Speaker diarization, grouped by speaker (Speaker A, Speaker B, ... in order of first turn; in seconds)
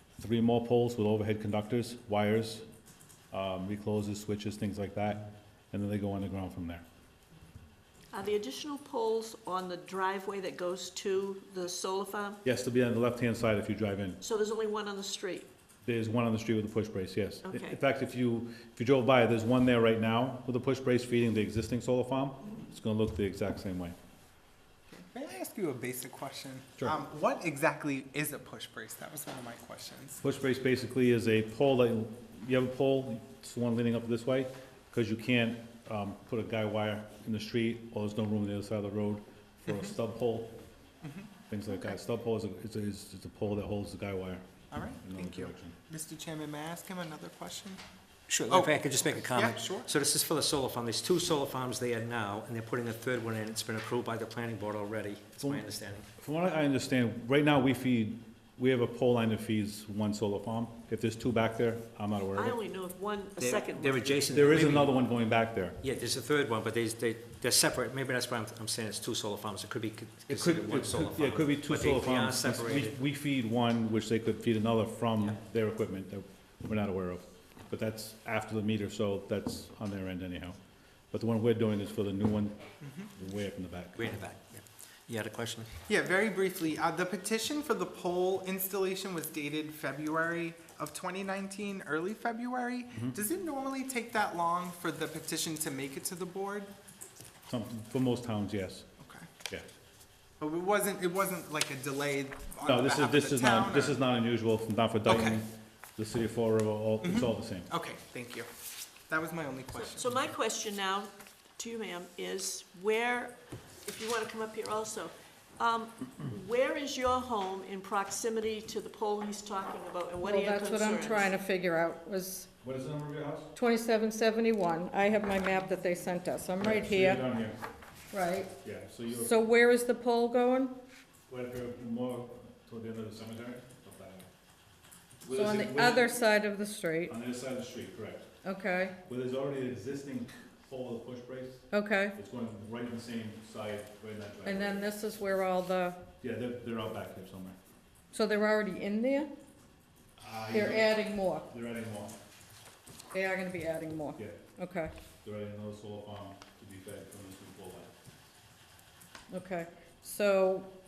Speaker A: 0.2-2.6, 3.3-6.8, 12.4-14.2, 15.8-23.9, 30.2-40.5, 41.5-44.4, 45.0-45.8, 55.4-55.6, 56.2-62.6, 64.3-65.8, 70.3-80.6, 81.1-82.6, 83.1-84.1, 97.5-98.8, 102.6-107.7, 122.6-123.5, 126.6-127.6, 128.6-129.3, 131.3-134.3, 135.2-136.2, 137.1-138.2, 139.1-144.9, 146.2-147.6, 150.2-152.1, 154.2-154.4, 155.2-157.9
Speaker B: 8.1-12.4, 14.2-15.5, 17.4-17.8, 62.3-64.5, 109.7-121.3
Speaker C: 25.0-30.2, 39.7-39.9, 41.0-41.3, 44.7-49.9, 85.9-96.7, 99.0-99.3, 100.4-104.0, 105.1-105.4, 107.0-108.5, 109.1-110.2
Speaker D: 48.3-56.0, 63.4-64.9, 65.8-73.0, 84.0-85.7
Speaker E: 120.2-122.5, 123.5-127.2, 128.1-128.5, 129.2-130.8, 135.3-137.1, 138.4-138.9, 141.7-142.2, 144.4-146.0, 148.1-149.3, 150.5-151.5, 153.1-154.9, 159.3-160.7